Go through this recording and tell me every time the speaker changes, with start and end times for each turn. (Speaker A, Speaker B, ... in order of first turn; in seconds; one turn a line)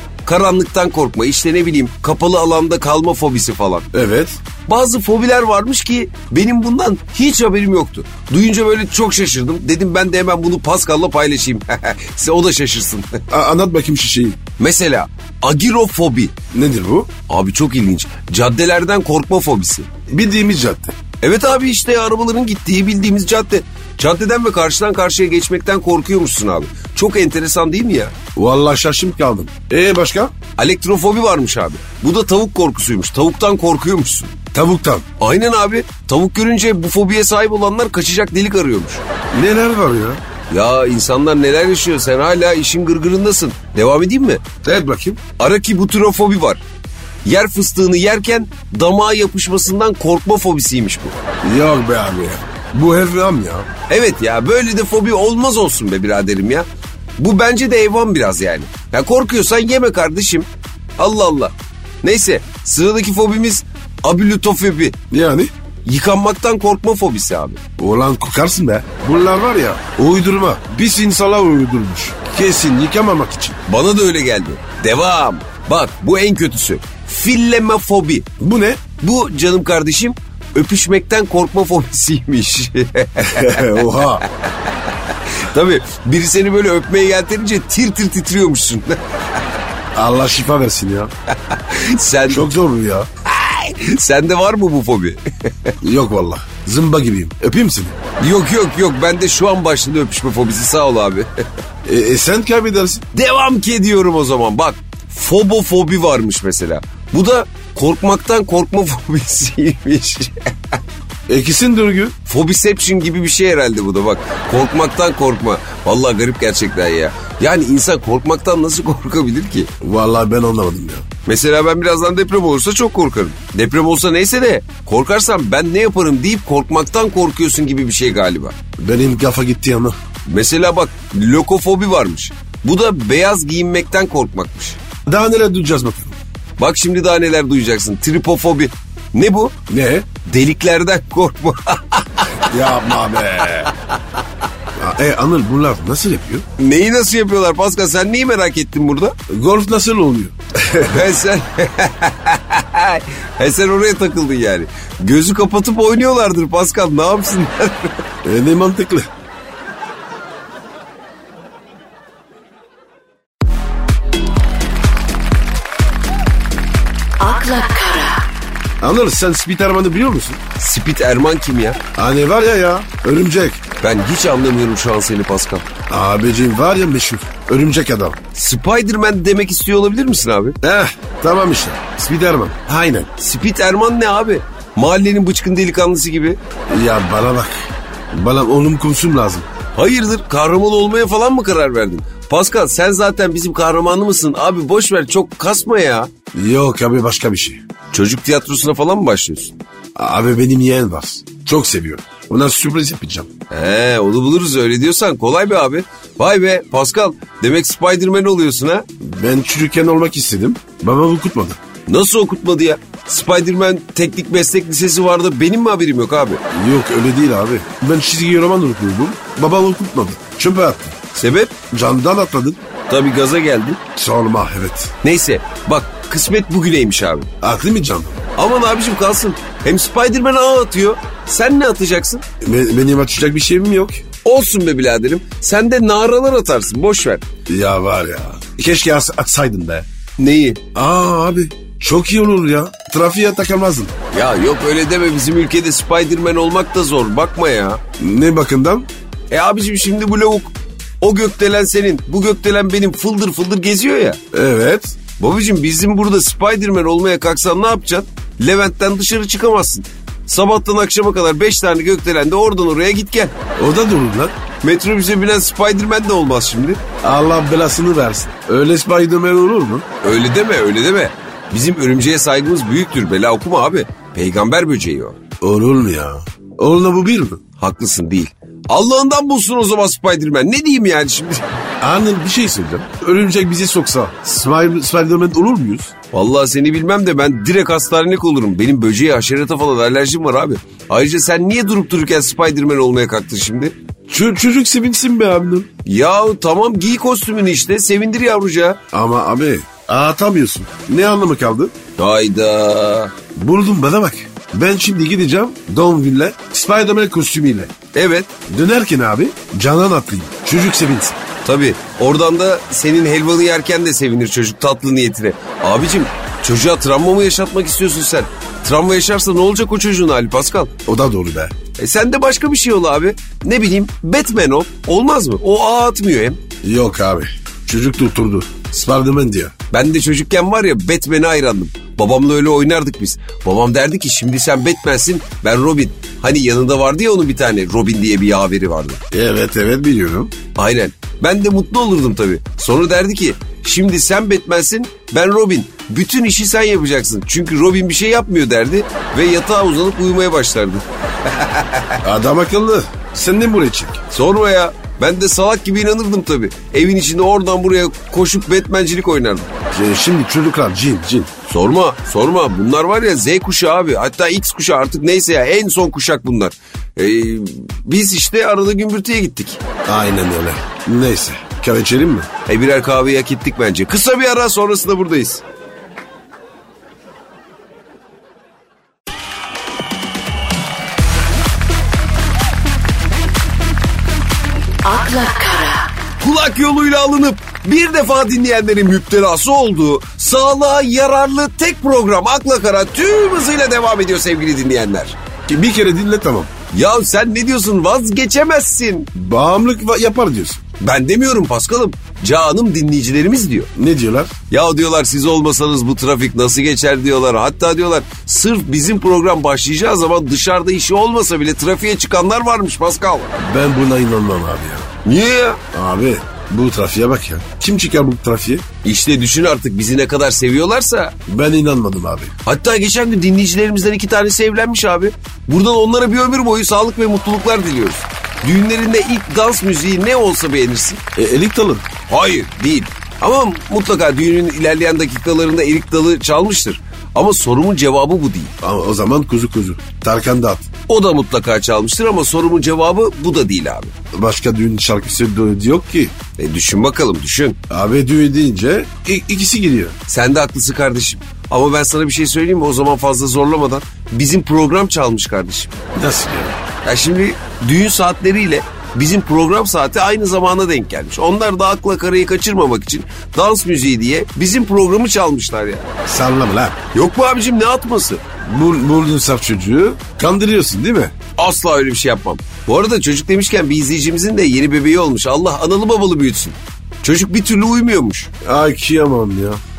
Speaker A: 0.2-3.9
Speaker B: 3.9-4.4
Speaker A: 4.7-13.2
Speaker B: 13.3-14.4
Speaker A: 14.6-16.4
Speaker B: 16.5-17.1
Speaker A: 17.3-19.9
Speaker B: 20.1-20.9
Speaker A: 21.2-28.1
Speaker B: 28.4-30.3
Speaker A: 30.6-34.4
Speaker B: 34.5-35.1
Speaker A: 35.2-39.0
Speaker B: 39.3-40.2
Speaker A: 40.5-44.5
Speaker B: 44.6-45.2
Speaker A: 45.4-46.6
Speaker A: 47.2-51.2
Speaker B: 51.4-53.7
Speaker A: 53.9-56.7
Speaker A: 57.2-60.5
Speaker A: 61.0-65.0
Speaker B: 65.1-65.5
Speaker A: 65.8-67.6
Speaker B: 67.8-73.6
Speaker A: 73.7-78.3
Speaker B: 78.4-78.8
Speaker A: 79.0-89.4
Speaker B: 83.2-84.2
Speaker B: 89.9-91.1
Speaker A: 91.5-92.5
Speaker B: 92.3-93.1
Speaker A: 93.3-95.8
Speaker B: 95.8-98.0
Speaker A: 98.2-101.3
Speaker B: 101.8-103.1
Speaker A: 103.1-110.8
Speaker B: 111.3-112.2
Speaker A: 112.3-119.7
Speaker B: 119.8-121.1
Speaker A: 121.3-128.6
Speaker B: 128.8-130.0
Speaker A: 130.3-134.8
Speaker B: 135.1-136.2
Speaker A: 136.6-139.6
Speaker B: 139.7-140.1
Speaker A: 140.2-143.7
Speaker B: 142.5-143.7
Speaker B: 144.8-146.5
Speaker A: 146.6-149.2
Speaker B: 149.3-151.1
Speaker A: 150.8-158.0
Speaker B: 158.2-159.1
Speaker C: 167.2-168.2
Speaker B: 168.8-170.4
Speaker A: 170.6-171.8
Speaker B: 171.9-173.6
Speaker A: 173.8-175.7
Speaker B: 175.9-178.2
Speaker A: 178.3-180.6
Speaker B: 180.6-183.1
Speaker A: 183.2-186.4
Speaker B: 186.7-189.5
Speaker A: 189.8-196.1
Speaker B: 196.3-197.6
Speaker A: 197.9-199.5
Speaker B: 200.0-203.3
Speaker A: 203.5-208.8
Speaker B: 209.0-211.6
Speaker A: 211.9-216.4
Speaker B: 216.5-221.0
Speaker A: 221.2-221.6
Speaker B: 221.7-222.6
Speaker A: 222.9-223.8
Speaker B: 223.9-224.9
Speaker A: 225.0-227.3
Speaker B: 227.4-228.2
Speaker A: 228.4-232.2
Speaker B: 232.4-234.1
Speaker A: 234.2-237.2
Speaker B: 237.5-239.9
Speaker A: 240.2-240.6
Speaker B: 240.7-243.9
Speaker A: 244.1-247.8
Speaker B: 248.0-248.9
Speaker A: 249.3-254.2
Speaker B: 254.3-255.0
Speaker A: 255.2-263.4
Speaker B: 263.6-264.4
Speaker A: 264.6-266.8
Speaker B: 267.0-269.9
Speaker A: 270.0-275.2
Speaker B: 275.4-277.4
Speaker A: 277.6-281.5
Speaker B: 281.8-285.9
Speaker A: 286.1-293.8
Speaker B: 294.1-295.7
Speaker A: 295.9-298.8
Speaker B: 298.9-301.8
Speaker A: 302.0-303.1
Speaker B: 303.4-307.7
Speaker A: 307.9-308.3
Speaker B: 308.5-311.2
Speaker A: 311.4-320.7
Speaker B: 320.9-321.5
Speaker A: 321.8-326.4
Speaker B: 326.6-329.5
Speaker A: 329.7-339.0
Speaker B: 339.1-340.3
Speaker A: 340.6-352.0
Speaker B: 352.0-354.0
Speaker A: 354.1-359.5
Speaker B: 359.7-361.3
Speaker A: 361.5-369.6
Speaker B: 369.9-372.3
Speaker A: 372.5-375.4
Speaker C: 384.8-385.9
Speaker A: 386.2-395.2
Speaker B: 395.5-396.5
Speaker A: 396.7-399.1
Speaker B: 399.1-400.6
Speaker A: 400.8-403.7
Speaker B: 403.8-404.3
Speaker A: 404.5-413.3
Speaker B: 413.4-414.9
Speaker A: 415.1-415.6
Speaker B: 415.7-418.7
Speaker A: 418.8-421.2
Speaker B: 421.3-422.3
Speaker A: 422.4-431.0
Speaker B: 431.1-431.9
Speaker A: 432.1-438.6
Speaker B: 438.6-440.7
Speaker A: 440.9-443.9
Speaker B: 444.1-446.1
Speaker A: 446.4-447.6
Speaker B: 447.7-450.0
Speaker A: 450.1-455.8
Speaker B: 455.9-456.6
Speaker A: 456.8-465.9
Speaker B: 466.1-466.8
Speaker A: 466.9-468.2
Speaker B: 468.4-471.1
Speaker A: 471.4-478.3
Speaker B: 478.4-479.6